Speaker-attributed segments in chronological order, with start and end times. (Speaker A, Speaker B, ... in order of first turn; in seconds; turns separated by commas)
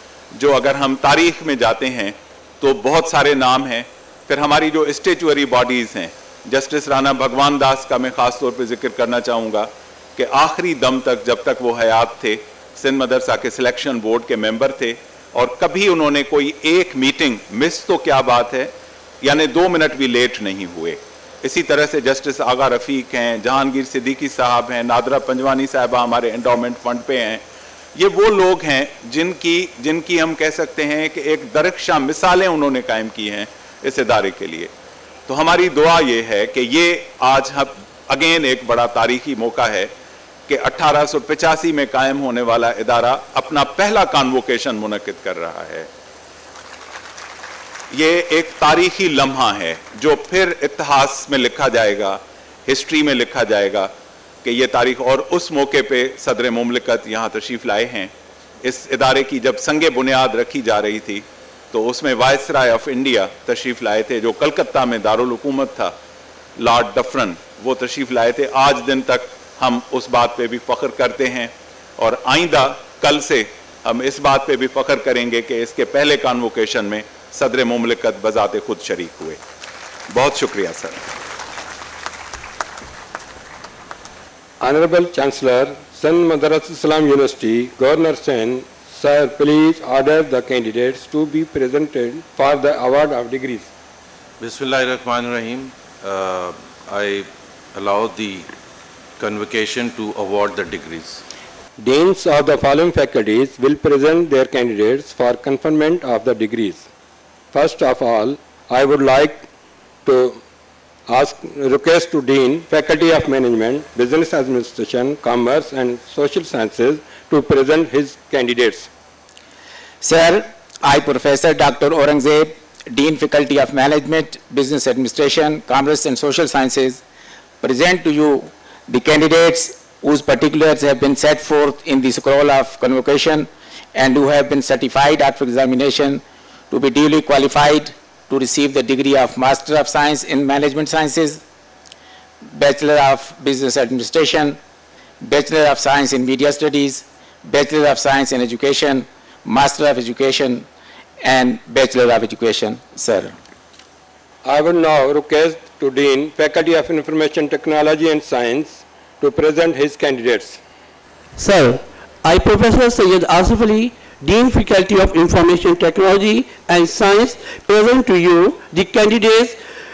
Speaker A: 0.3-27.4, Speaker A: 27.9-34.7, Speaker A: 35.3-39.9, Speaker A: 40.5-45.9, Speaker A: 47.9-53.9, Speaker A: 54.4-58.1, Speaker A: 58.6-65.9, Speaker A: 66.6-79.4, Speaker A: 80.1-81.1, Speaker B: 84.6-93.7, Speaker C: 94.4-98.5, Speaker C: 99.2-101.2, Speaker B: 101.8-106.8, Speaker B: 107.5-109.5, Speaker B: 110.0-110.4, Speaker B: 111.1-118.9, Speaker D: 120.0-127.0, Speaker D: 127.6-141.4, Speaker D: 142.4-144.6, Speaker D: 145.2-150.7, Speaker D: 151.2-153.3, Speaker B: 154.4-160.6, Speaker E: 161.4-169.6